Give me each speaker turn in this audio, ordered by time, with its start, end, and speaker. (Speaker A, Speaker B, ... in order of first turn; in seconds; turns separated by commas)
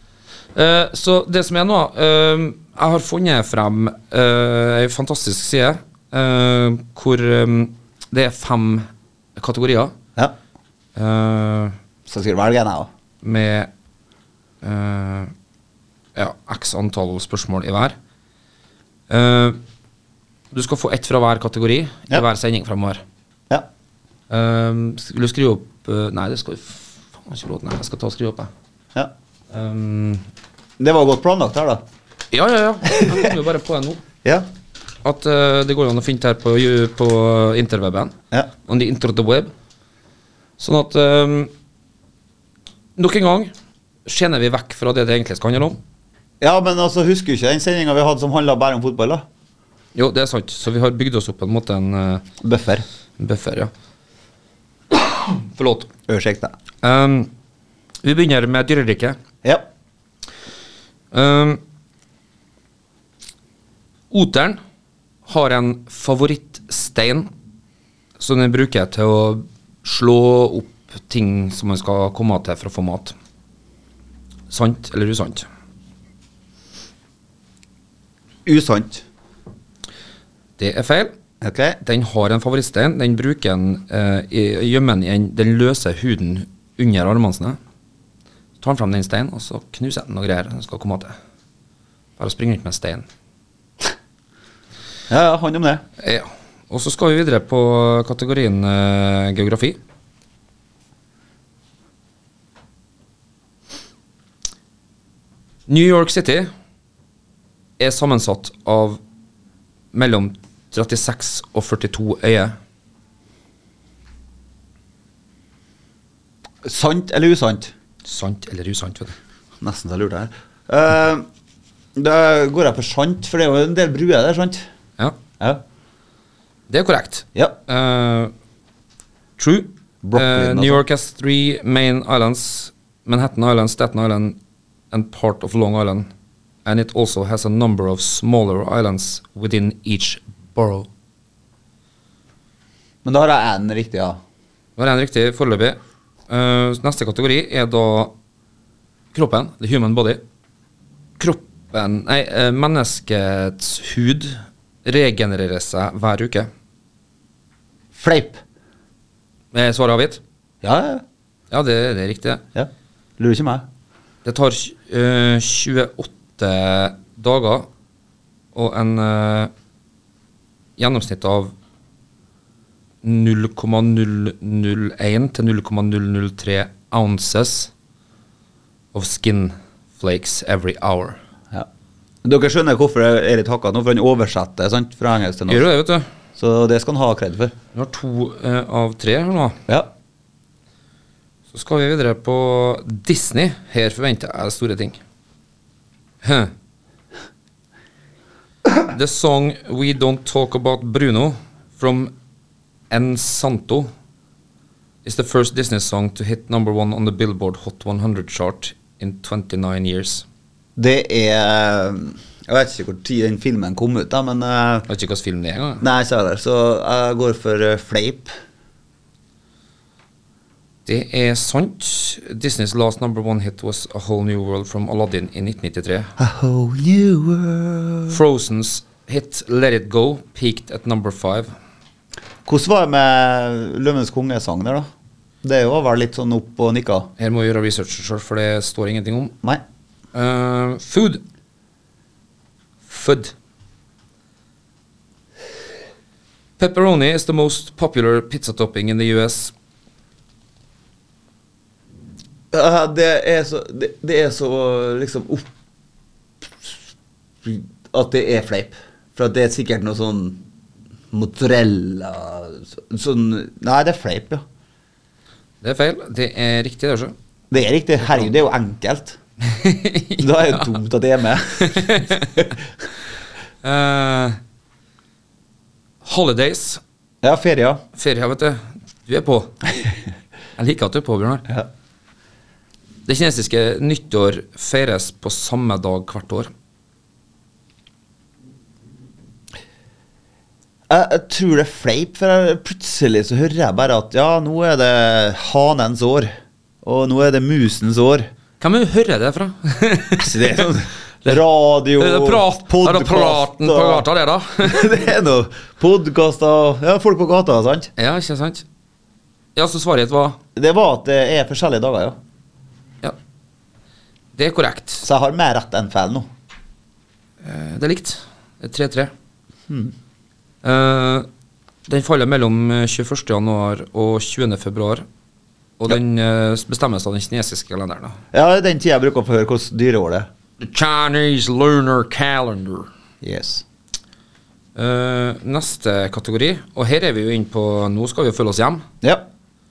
Speaker A: 0.6-9.9, Speaker A: 10.9-11.7, Speaker B: 12.1-12.9, Speaker A: 13.2-13.7, Speaker A: 14.6-15.3, Speaker A: 16.1-17.9, Speaker A: 19.1-19.6, Speaker A: 20.5-23.0, Speaker A: 24.3-28.5, Speaker A: 29.5-30.2, Speaker B: 30.8-31.8, Speaker A: 32.3-34.0, Speaker B: 32.9-33.3, Speaker A: 35.0-38.1, Speaker A: 38.7-39.5, Speaker A: 40.6-41.5, Speaker A: 43.0-43.5, Speaker A: 44.1-45.8, Speaker B: 46.4-49.2, Speaker A: 49.9-52.2, Speaker B: 52.4-52.9, Speaker A: 53.2-53.7, Speaker A: 55.3-55.9, Speaker B: 56.1-56.5, Speaker A: 56.8-57.3, Speaker A: 58.0-59.2, Speaker A: 61.1-61.6, Speaker A: 64.1-64.6, Speaker A: 65.2-67.3, Speaker A: 68.2-73.1, Speaker A: 74.5-75.5, Speaker B: 78.4-79.0, Speaker A: 80.6-81.1, Speaker B: 81.4-81.8, Speaker A: 81.8-87.6, Speaker A: 88.6-91.1, Speaker A: 92.2-93.1, Speaker B: 95.1-95.8, Speaker A: 96.0-99.8, Speaker A: 105.7-106.5, Speaker A: 107.8-109.0, Speaker A: 109.9-112.5, Speaker B: 116.6-117.7, Speaker A: 118.0-119.1, Speaker B: 119.6-121.2, Speaker B: 121.9-124.6, Speaker A: 126.7-128.3, Speaker A: 129.4-134.4, Speaker B: 130.0-130.8, Speaker A: 134.9-136.1, Speaker A: 136.6-140.9, Speaker B: 143.1-144.2, Speaker A: 144.8-148.1, Speaker A: 149.1-150.2, Speaker A: 151.2-156.5, Speaker B: 157.9-158.4, Speaker A: 159.5-160.2, Speaker B: 160.6-161.0, Speaker A: 161.5-162.4, Speaker B: 162.6-163.7, Speaker A: 164.2-167.7, Speaker A: 168.6-169.5, Speaker A: 170.8-171.5, Speaker A: 173.0-177.7, Speaker A: 178.9-181.2, Speaker B: 182.2-185.7, Speaker A: 185.5-186.1, Speaker B: 186.4-187.5, Speaker A: 187.7-189.6, Speaker A: 191.5-195.0, Speaker A: 196.2-196.5, Speaker A: 198.9-202.1, Speaker A: 202.9-203.9, Speaker A: 205.1-210.2, Speaker B: 210.8-214.9, Speaker A: 214.9-215.8, Speaker B: 215.8-218.3, Speaker A: 220.9-226.1, Speaker B: 226.2-228.2, Speaker A: 228.1-231.5, Speaker B: 232.4-234.9, Speaker B: 235.4-237.1, Speaker A: 237.2-239.3, Speaker A: 240.1-241.2, Speaker A: 242.9-243.3, Speaker A: 246.6-249.5, Speaker B: 252.5-255.5, Speaker B: 256.4-256.8, Speaker B: 257.4-260.4, Speaker B: 261.1-264.4, Speaker A: 265.6-267.1, Speaker B: 267.5-269.2, Speaker A: 268.0-268.3, Speaker A: 269.4-270.7, Speaker B: 270.2-272.5, Speaker A: 271.6-272.4, Speaker A: 273.6-274.4, Speaker A: 276.0-276.8, Speaker B: 277.2-277.8, Speaker A: 278.0-279.5, Speaker A: 280.6-281.5, Speaker A: 283.1-286.5, Speaker B: 290.9-296.3, Speaker B: 296.8-298.3, Speaker A: 298.6-300.7, Speaker B: 300.2-304.0, Speaker A: 302.0-304.9, Speaker B: 304.6-307.9, Speaker A: 308.0-308.6, Speaker A: 309.6-310.4, Speaker B: 310.6-312.2, Speaker A: 314.4-315.1, Speaker B: 315.0-316.3, Speaker A: 317.4-319.1, Speaker A: 320.6-321.3, Speaker A: 321.9-325.0, Speaker A: 325.8-328.2, Speaker B: 328.3-330.3, Speaker A: 330.6-332.9, Speaker B: 333.2-333.6, Speaker A: 334.8-338.9, Speaker B: 339.0-339.3